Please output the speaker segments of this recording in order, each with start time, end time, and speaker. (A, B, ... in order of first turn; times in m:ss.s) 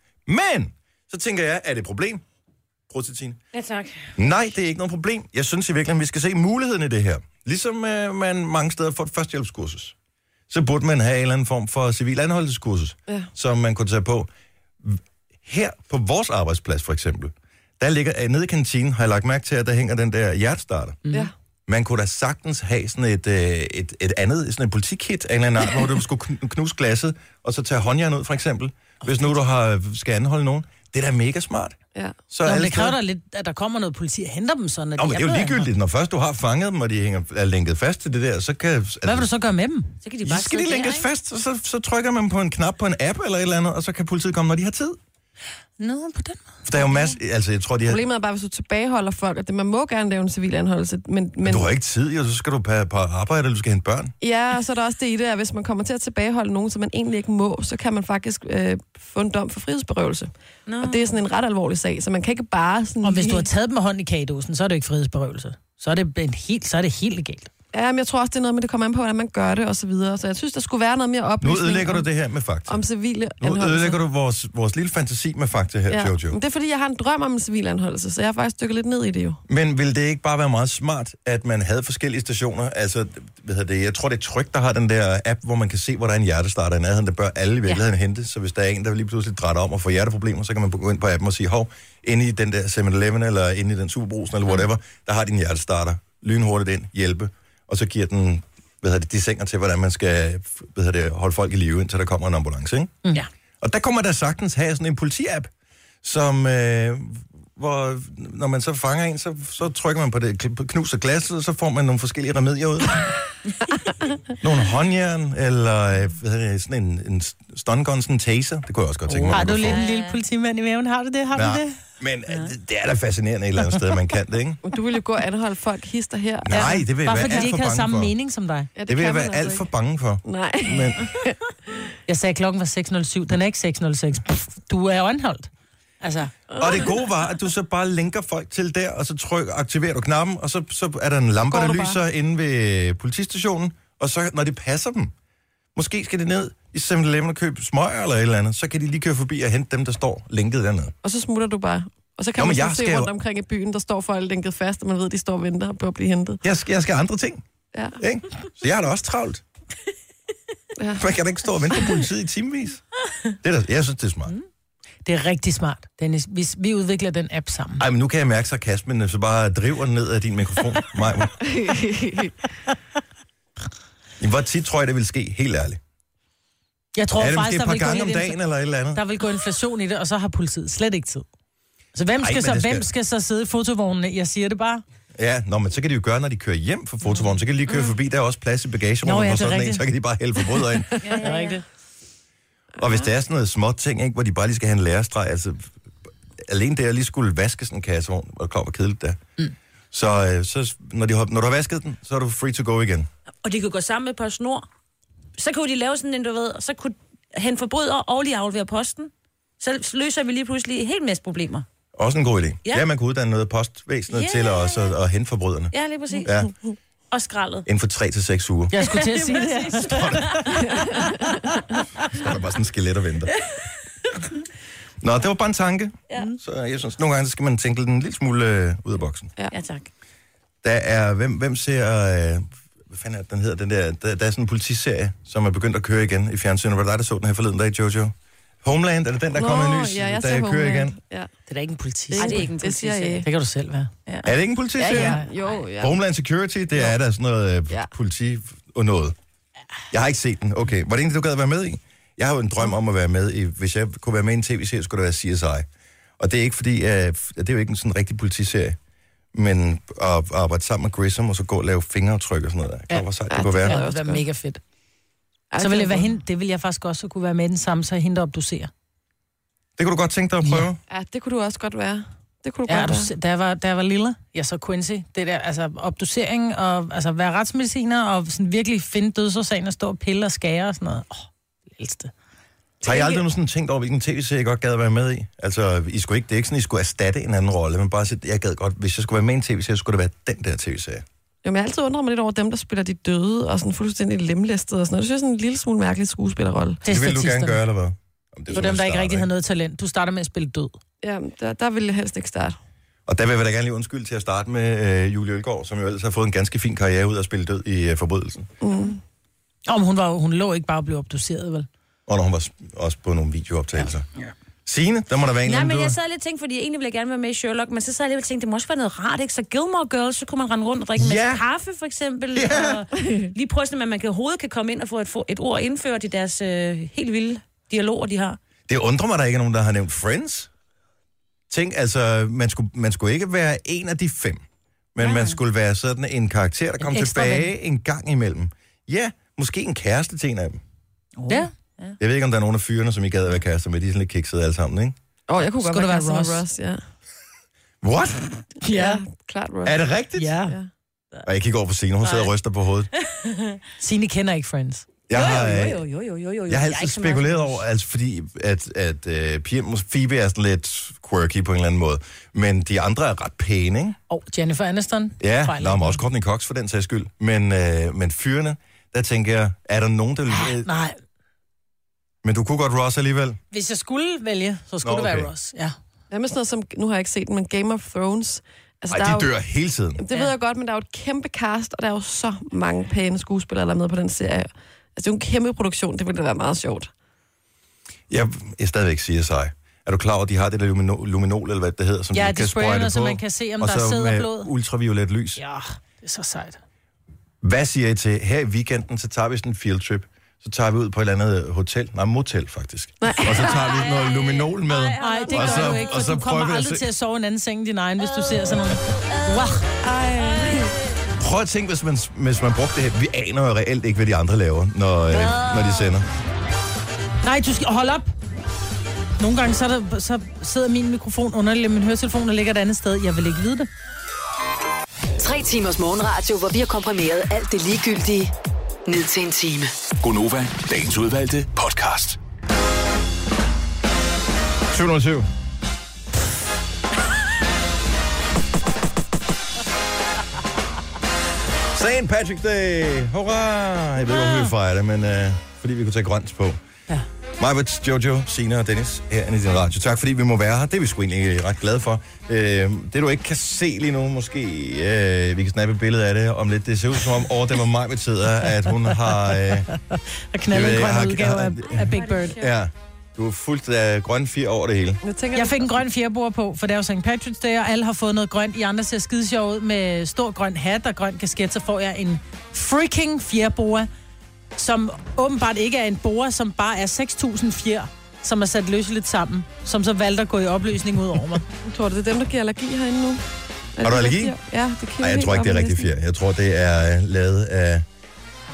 0:00.2-0:02.2 A
0:02.9-0:03.4 A
0:03.5-0:04.1 B
0:04.2-0:09.9 A
0:10.5-0:14.3 A
0:14.8-0:21.0 A
0:21.0-0:21.3 C
0:21.7-0:31.8 A
0:32.3-0:33.0 A
0:32.4-0:35.7 C
0:35.0-0:39.3 A
0:39.0-0:39.9 C
0:40.0-0:41.1 B
0:40.2-0:45.0 A
0:45.8-0:46.6 C
0:46.6-0:48.0 A
0:47.9-0:51.7 D
0:51.4-0:54.1 A
0:54.2-1:00.3 D
1:00.7-1:01.2 B
1:00.8-1:03.5 D
1:03.0-1:07.5 C
1:07.7-1:12.0 D
1:11.4-1:12.8 A
1:12.7-1:14.0 D
1:13.4-1:16.4 A
1:15.9-1:19.4 D
1:19.5-1:43.0 A
1:43.6-1:45.5 A
1:46.0-1:53.1 A
1:54.4-1:59.8 A
1:59.1-2:01.7 C
1:59.4-2:00.2 B
2:01.3-2:04.6 A
2:04.6-2:06.8 D
2:06.4-2:08.1 A
2:06.5-2:08.7 C
2:08.8-2:09.6 D
2:08.9-2:11.0 A
2:10.2-2:11.4 D
2:12.1-2:15.5 C
2:16.0-2:16.3 C
2:16.5-2:16.9 D
2:16.6-2:25.1 A
2:21.4-2:22.0 D
2:25.7-2:30.9 A
2:31.0-2:36.4 D
2:32.4-2:33.1 A
2:36.4-2:37.4 A
2:38.0-2:39.4 A
2:40.8-2:41.0 D
2:41.0-2:42.8 A
2:43.4-2:44.3 A
2:45.0-2:47.8 C
2:47.8-2:51.3 A
2:51.4-2:52.5 D
2:54.2-2:55.8 A
2:57.0-2:58.4 C
2:57.2-2:59.0 A
2:58.9-3:01.2 C
3:01.9-3:04.8 C
3:02.2-3:02.9 A
3:05.1-3:11.0 A
3:09.0-3:09.8 C
3:11.0-3:11.6 B
3:11.2-3:11.6 C
3:12.8-3:15.7 A
3:16.4-3:19.2 A
3:19.9-3:23.1 A
3:23.4-3:24.6 B
3:25.4-3:31.6 B
3:32.0-3:35.7 A
3:34.1-3:34.9 B
3:35.7-3:36.3 B
3:36.2-3:36.5 A
3:37.1-3:37.6 B
3:37.6-3:38.8 A
3:38.7-3:40.2 C
3:38.8-3:41.1 B
3:39.8-3:40.4 A
3:40.7-3:41.0 D
3:42.0-3:43.3 A
3:45.0-3:49.3 A
3:46.1-3:46.3 B
3:49.5-3:49.9 B
3:50.6-4:01.0 A
3:59.3-4:01.3 D
4:01.5-4:02.4 C
4:02.1-4:03.3 D
4:02.2-4:03.2 B
4:03.2-4:03.9 C
4:04.2-4:05.2 A
4:04.8-4:05.9 D
4:04.9-4:05.2 C
4:05.8-4:09.2 A
4:09.9-4:15.7 A
4:16.2-4:18.8 A
4:19.3-4:23.8 A
4:23.3-4:24.2 D
4:23.6-4:24.6 C
4:25.5-4:26.1 D
4:25.6-4:28.7 C
4:29.8-4:30.8 A
4:30.9-4:33.1 D
4:32.7-4:42.1 C
4:42.8-4:51.0 A
4:51.4-4:56.8 D
4:56.8-4:57.6 C
4:56.9-4:59.3 A
4:58.5-5:00.8 C
5:01.0-5:02.6 D
5:03.1-5:08.5 A
5:08.6-5:09.0 D
5:09.7-5:11.7 C
5:12.1-5:14.1 A
5:14.6-5:16.0 A
5:15.4-5:28.4 B
5:21.0-5:21.4 A
5:22.3-5:22.8 A
5:28.7-5:30.5 A
5:31.5-5:34.4 A
5:34.9-5:40.6 A
5:35.0-5:35.4 B
5:36.8-5:37.5 C
5:41.2-5:42.0 B
5:42.0-5:45.0 A
5:45.3-5:46.8 D
5:45.6-5:46.4 C
5:47.8-5:48.3 A
5:48.6-5:49.0 C
5:48.6-5:49.8 D
5:49.6-5:50.4 A
5:50.2-5:50.6 C
5:51.2-5:52.9 A
5:53.1-5:53.6 B
5:53.8-5:54.8 C
5:55.1-5:55.8 A
5:55.1-5:57.6 B
5:56.5-6:04.0 A
6:04.1-6:06.0 C
6:05.2-6:10.7 A
6:10.3-6:11.0 C
6:12.2-6:13.4 A
6:13.5-6:15.7 C
6:14.8-6:15.3 A
6:16.1-6:19.3 D
6:18.9-6:20.0 A
6:20.0-6:26.9 D
6:28.1-6:35.4 A
6:32.1-6:34.5 C
6:35.4-6:36.6 C
6:37.4-6:46.8 A
6:43.0-6:43.5 D
6:43.4-6:46.0 B
6:45.0-6:49.7 C
6:48.1-6:49.5 B
6:49.9-6:50.7 D
6:50.2-6:50.8 B
6:51.2-6:56.1 A
6:55.3-6:55.7 B
6:57.2-6:58.1 C
6:59.2-7:03.7 C
7:05.2-7:08.3 E
7:08.8-7:09.7 E
7:10.0-7:12.2 F
7:14.7-7:15.3 A
7:21.7-7:26.6 A
7:27.4-7:39.7 A
7:38.6-7:42.4 C
7:40.5-7:45.0 A
7:41.6-7:42.5 B
7:45.0-7:45.7 D
7:45.3-7:53.9 C
7:54.6-8:01.4 C
8:01.7-8:03.2 D
8:03.7-8:05.9 D
8:03.8-8:04.3 A
8:05.0-8:07.8 A